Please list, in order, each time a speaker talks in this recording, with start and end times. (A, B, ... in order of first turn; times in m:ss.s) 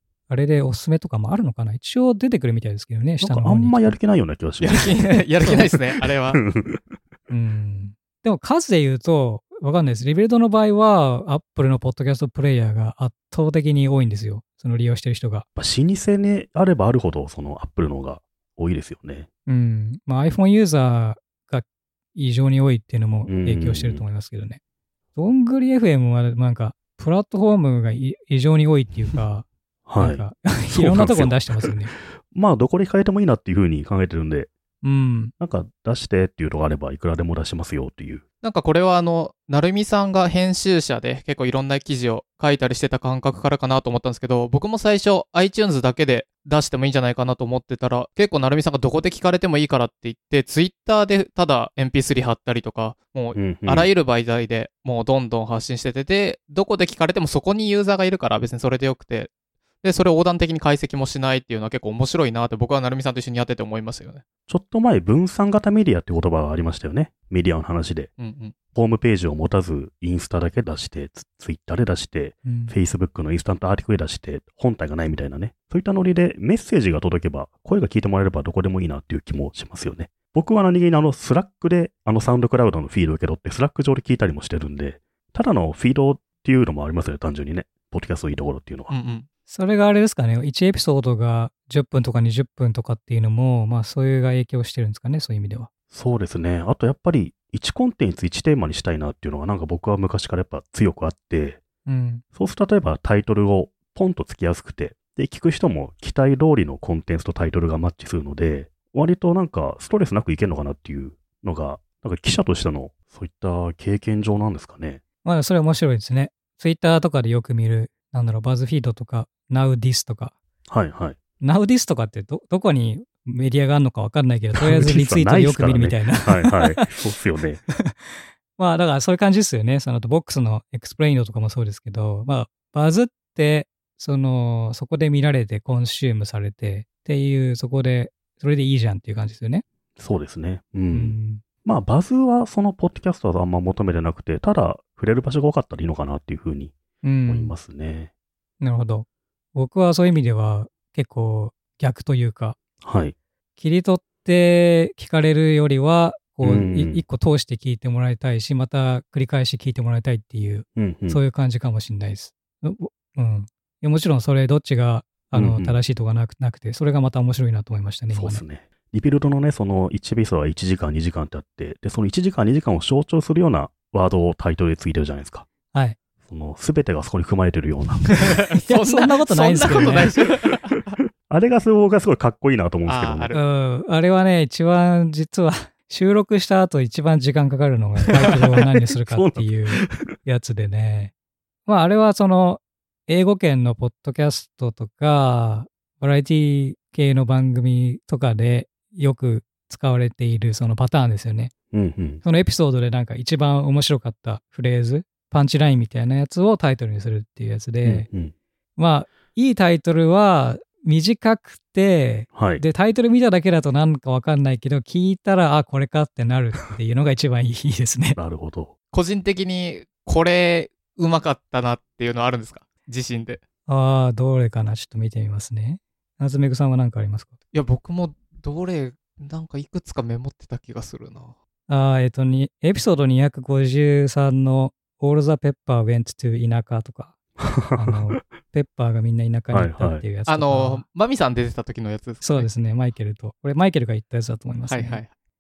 0:00.3-0:04.0 A
0:03.2-0:04.9 B
0:04.6-0:06.4 C
0:06.3-0:06.8 B
0:07.3-0:15.4 A
0:15.6-0:19.3 B
0:19.5-0:24.6 A
0:23.3-0:24.0 B
0:25.2-0:31.9 A
0:29.9-0:34.5 B
0:34.8-0:35.3 A
0:35.4-0:38.2 B
0:38.4-0:59.3 C
0:53.4-0:53.9 B
0:59.8-1:04.2 C
1:04.5-1:08.1 B
1:08.2-1:08.5 C
1:08.7-1:28.9 B
1:12.4-1:12.7 A
1:28.9-1:29.3 C
1:29.5-1:35.7 A
1:35.9-1:41.6 B
1:41.9-1:42.2 A
1:42.4-1:55.0 B
1:55.2-2:00.4 A
2:00.7-2:01.2 B
2:01.4-2:06.9 A
2:04.6-2:07.6 B
2:07.7-2:19.6 A
2:20.0-2:28.1 B
2:20.9-2:21.4 A
2:27.0-2:27.6 A
2:28.6-2:32.6 A
2:32.8-2:33.1 B
2:33.6-2:48.4 A
2:36.4-2:37.0 B
2:40.8-2:41.2 B
2:45.3-2:45.8 B
2:48.1-2:55.5 B
2:55.7-2:56.0 A
2:56.2-2:58.2 B
2:58.1-3:00.9 C
2:58.6-3:00.1 A
2:59.6-3:00.3 B
3:01.3-3:03.3 B
3:02.9-3:03.4 C
3:03.3-3:11.1 A
3:09.1-3:10.2 B
3:11.7-3:21.5 A
3:21.7-3:22.2 B
3:22.2-3:28.1 A
3:27.8-3:28.3 B
3:28.8-3:38.2 A
3:32.4-3:32.6 B
3:38.2-3:38.7 B
3:38.9-3:43.4 C
3:43.7-3:47.3 A
3:47.5-3:51.4 C
3:51.7-3:57.2 A
3:57.4-3:57.9 B
3:57.7-4:00.8 A
3:59.5-4:00.0 B
4:00.3-4:02.5 C
4:02.2-4:05.0 A
4:04.7-4:05.1 C